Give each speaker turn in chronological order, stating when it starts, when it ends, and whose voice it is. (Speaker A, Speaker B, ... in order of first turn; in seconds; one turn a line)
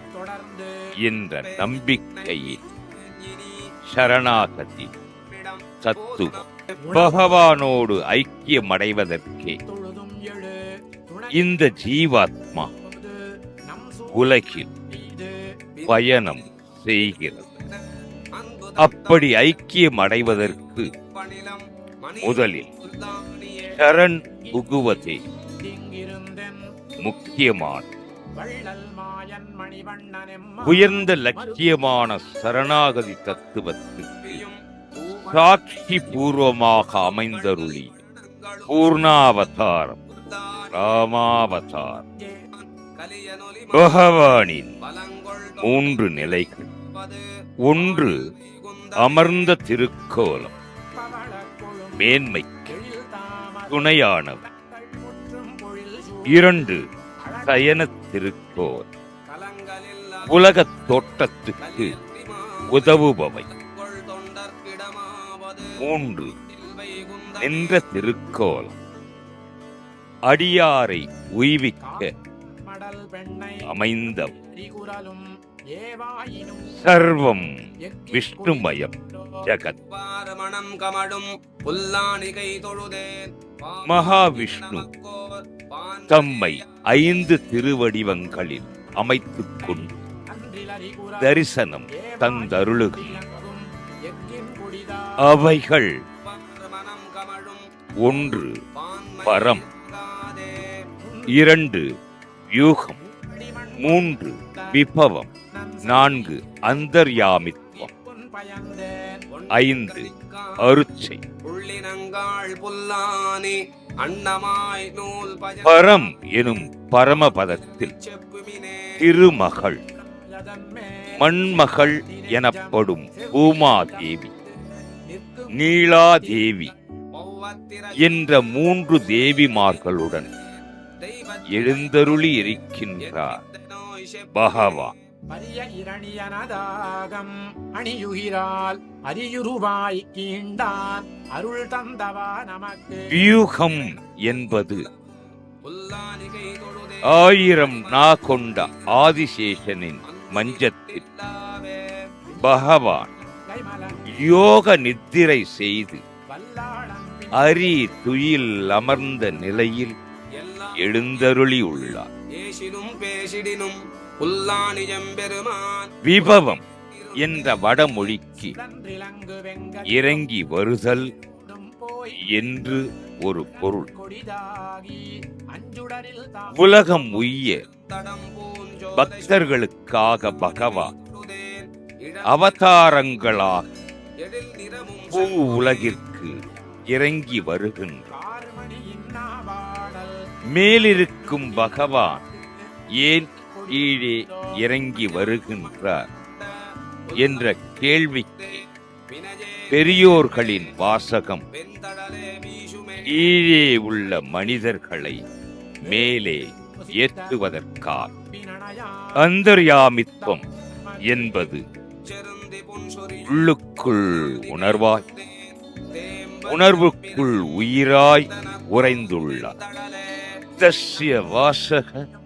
Speaker A: 0.1-0.9
Speaker B: 1.0-2.6
Speaker C: 1.4-3.7
Speaker B: 3.9-4.9
Speaker C: 5.3-7.0
Speaker B: 5.8-9.6
Speaker A: 6.8-7.2
Speaker A: 9.7-11.8
Speaker B: 11.3-12.7
Speaker A: 12.8-14.3
Speaker B: 14.1-14.7
Speaker A: 14.9-15.4
Speaker C: 15.8-16.5
Speaker B: 15.9-17.4
Speaker C: 17.1-17.8
Speaker C: 18.3-19.4
Speaker B: 18.8-20.9
Speaker C: 20.3-23.8
Speaker B: 22.2-22.7
Speaker B: 23.7-25.2
Speaker A: 24.3-24.7
Speaker A: 25.6-26.8
Speaker B: 27.0-27.9
Speaker A: 28.4-31.7
Speaker B: 30.6-34.4
Speaker C: 32.8-33.1
Speaker C: 34.2-39.2
Speaker B: 35.2-37.9
Speaker B: 38.7-40.0
Speaker C: 40.1-41.1
Speaker B: 40.7-42.0
Speaker A: 42.2-42.4
Speaker C: 42.5-44.1
Speaker B: 43.7-44.8
Speaker C: 44.8-47.2
Speaker B: 45.6-46.7
Speaker B: 47.6-48.3
Speaker C: 47.7-49.5
Speaker B: 49.0-50.5
Speaker A: 51.0-57.9
Speaker B: 52.0-52.8
Speaker B: 53.7-54.4
Speaker B: 56.3-56.8
Speaker B: 57.4-58.9
Speaker C: 59.3-60.5
Speaker B: 60.2-61.9
Speaker C: 61.6-67.8
Speaker B: 62.7-63.5
Speaker B: 65.8-66.3
Speaker B: 67.4-68.8
Speaker B: 70.3-72.1
Speaker A: 71.8-76.8
Speaker B: 73.7-74.3
Speaker B: 76.8-77.6
Speaker A: 77.8-79.5
Speaker B: 78.1-79.8
Speaker C: 79.8-87.0
Speaker B: 83.8-84.9
Speaker B: 86.1-89.9
Speaker A: 90.3-91.3
Speaker B: 91.2-93.2
Speaker A: 91.9-95.3
Speaker B: 95.2-96.0
Speaker C: 96.2-97.7
Speaker B: 98.0-98.6
Speaker C: 98.7-100.9
Speaker B: 99.2-99.6
Speaker A: 101.0-101.5
Speaker B: 101.3-101.9
Speaker B: 102.5-103.0
Speaker A: 103.0-104.8
Speaker B: 103.8-105.3
Speaker A: 105.5-106.4
Speaker B: 105.8-107.9
Speaker A: 107.7-109.2
Speaker C: 109.3-110.8
Speaker B: 109.5-111.2
Speaker C: 111.4-116.3
Speaker B: 115.6-117.9
Speaker C: 117.3-119.1
Speaker B: 119.0-119.8
Speaker A: 120.0-124.2
Speaker B: 121.2-124.3
Speaker A: 125.0-126.5
Speaker B: 125.5-126.7
Speaker C: 127.1-132.5
Speaker B: 128.0-130.3
Speaker B: 131.5-133.4
Speaker C: 133.0-134.9
Speaker B: 134.3-134.9
Speaker A: 135.3-143.3
Speaker B: 143.1-144.9
Speaker C: 143.8-145.0
Speaker C: 145.6-149.1
Speaker B: 147.0-151.0
Speaker C: 150.1-152.0
Speaker A: 152.3-154.4
Speaker B: 152.4-153.1
Speaker B: 154.1-156.0
Speaker A: 156.3-157.9
Speaker B: 157.3-159.9
Speaker C: 160.4-167.9
Speaker B: 160.8-162.1
Speaker B: 166.0-166.6
Speaker B: 167.2-168.6
Speaker A: 168.4-170.2
Speaker B: 169.9-171.1
Speaker A: 171.2-172.5
Speaker B: 172.2-173.9
Speaker A: 173.5-176.7
Speaker B: 176.5-177.6
Speaker C: 177.7-183.6
Speaker B: 179.0-180.9
Speaker B: 182.2-183.7
Speaker C: 184.2-186.0
Speaker B: 185.1-188.2
Speaker A: 188.1-190.3
Speaker B: 190.5-192.2
Speaker A: 191.0-192.4
Speaker B: 193.0-196.1
Speaker A: 193.5-194.6
Speaker C: 194.9-197.7
Speaker B: 197.2-198.4
Speaker C: 198.3-201.0
Speaker B: 199.7-201.4
Speaker C: 201.5-203.4
Speaker B: 203.1-205.2
Speaker B: 205.8-208.1
Speaker A: 205.9-207.4
Speaker A: 208.0-209.3
Speaker B: 209.2-210.4
Speaker A: 210.2-211.5
Speaker B: 211.0-211.7
Speaker C: 212.0-213.5
Speaker B: 213.2-215.0
Speaker C: 214.2-220.4
Speaker B: 216.5-219.6
Speaker B: 220.6-222.1